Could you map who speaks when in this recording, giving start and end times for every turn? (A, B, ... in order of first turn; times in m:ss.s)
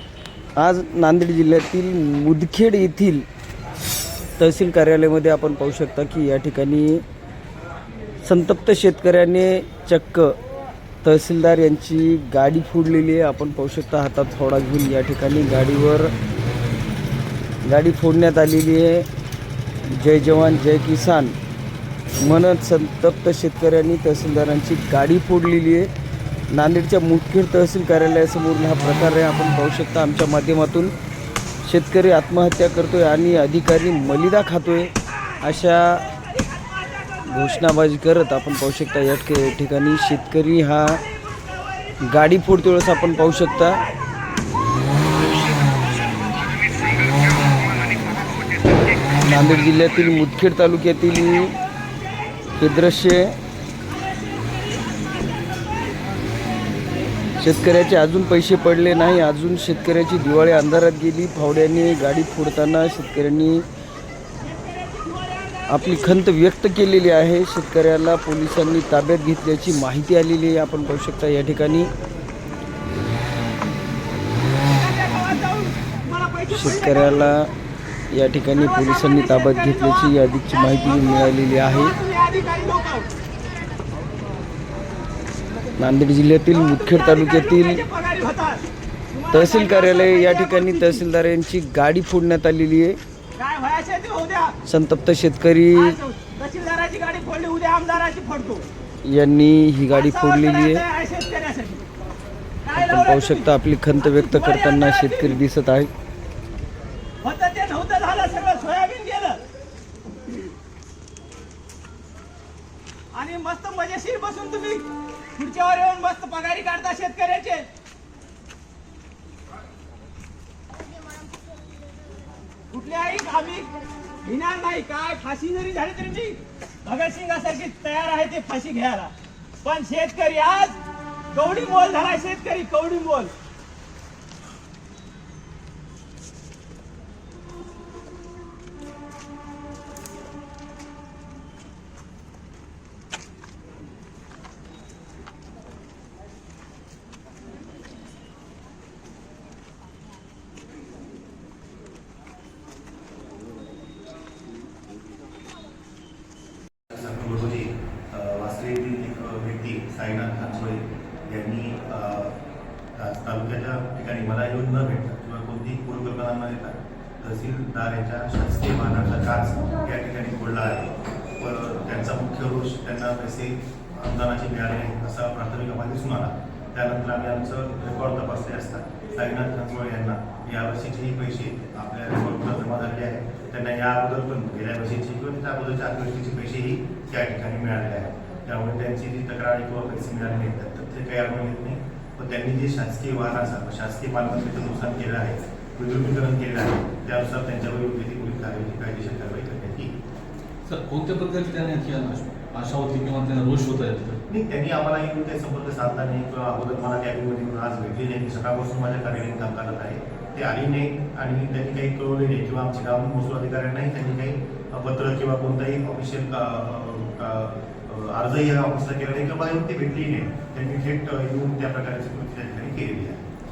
0:00.6-0:03.2 A
0:04.4-0:07.0 A
0:08.2-0:10.4 A
0:11.0-0:16.1 A
0:17.6-0:19.1 A
0:19.9-0:21.4 A
0:22.2-0:25.9 A
0:26.5-0:30.9 A
0:31.6-0:36.0 A
0:37.3-0:41.0 A
0:42.0-0:43.8 A
0:45.5-0:45.8 B
0:47.4-0:48.1 B
0:49.2-0:51.6 A
0:52.6-0:53.4 A
0:53.8-0:56.1 B
0:57.4-1:03.6 A
1:04.4-1:06.2 B
1:05.7-1:11.9 A
1:14.7-1:17.3 B
1:16.5-1:17.5 A
1:18.1-1:21.9 A
1:18.6-1:23.1 B
1:25.8-1:27.8 A
1:26.5-1:31.0 B
1:29.3-1:33.0 A
1:33.4-1:34.6 B
1:34.6-1:36.0 A
1:35.7-1:38.7 B
1:39.0-1:40.8 A
1:39.9-1:41.8 B
1:42.6-1:43.5 B
1:42.7-1:45.9 A
1:44.0-1:45.4 B
1:47.2-1:49.4 B
1:53.1-1:57.7 B
2:02.7-2:03.7 B
2:04.2-2:13.3 B
2:36.9-2:42.4 C
2:43.0-3:19.9 C
3:20.6-3:24.2 D
3:24.3-3:43.2 C